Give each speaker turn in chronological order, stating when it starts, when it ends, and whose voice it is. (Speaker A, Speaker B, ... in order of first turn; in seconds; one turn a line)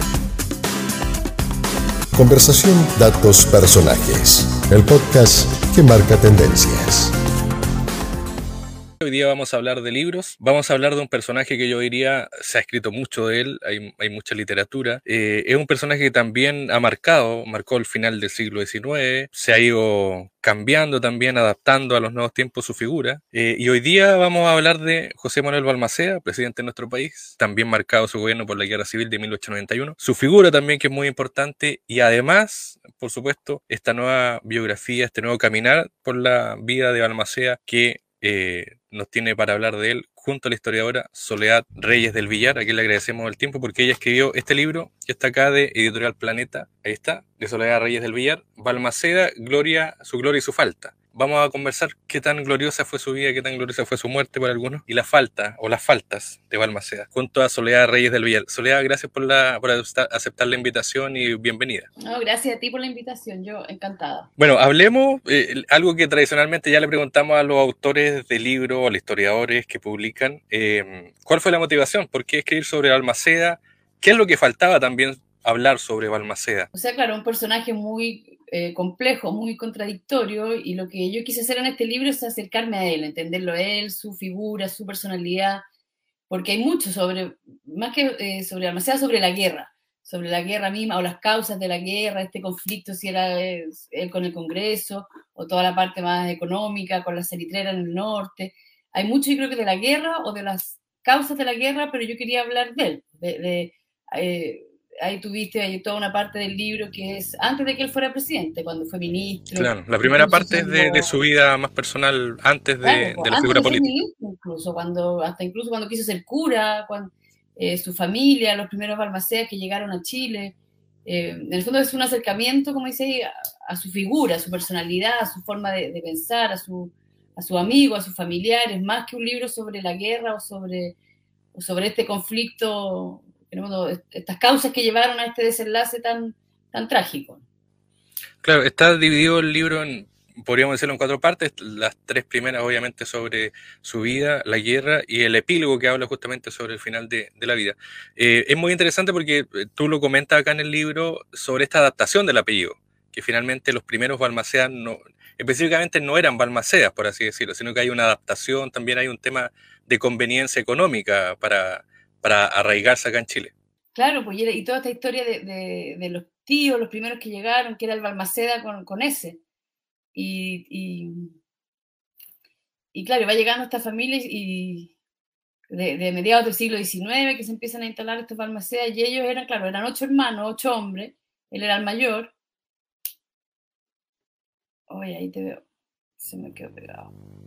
Speaker A: 2.1-7.1
Speaker B: 9.0-61.9
Speaker C: 62.0-64.3
Speaker B: 64.4-76.7
Speaker C: 76.7-85.6
Speaker C: 86.3-111.1
Speaker B: 109.5-113.9
Speaker C: 112.8-120.5
Speaker C: 121.0-130.9
Speaker C: 131.5-137.4
Speaker B: 138.4-163.5
Speaker C: 163.9-169.4
Speaker C: 170.1-171.3
Speaker C: 172.9-174.9
Speaker C: 175.7-182.3
Speaker C: 184.9-185.6
Speaker C: 186.2-187.1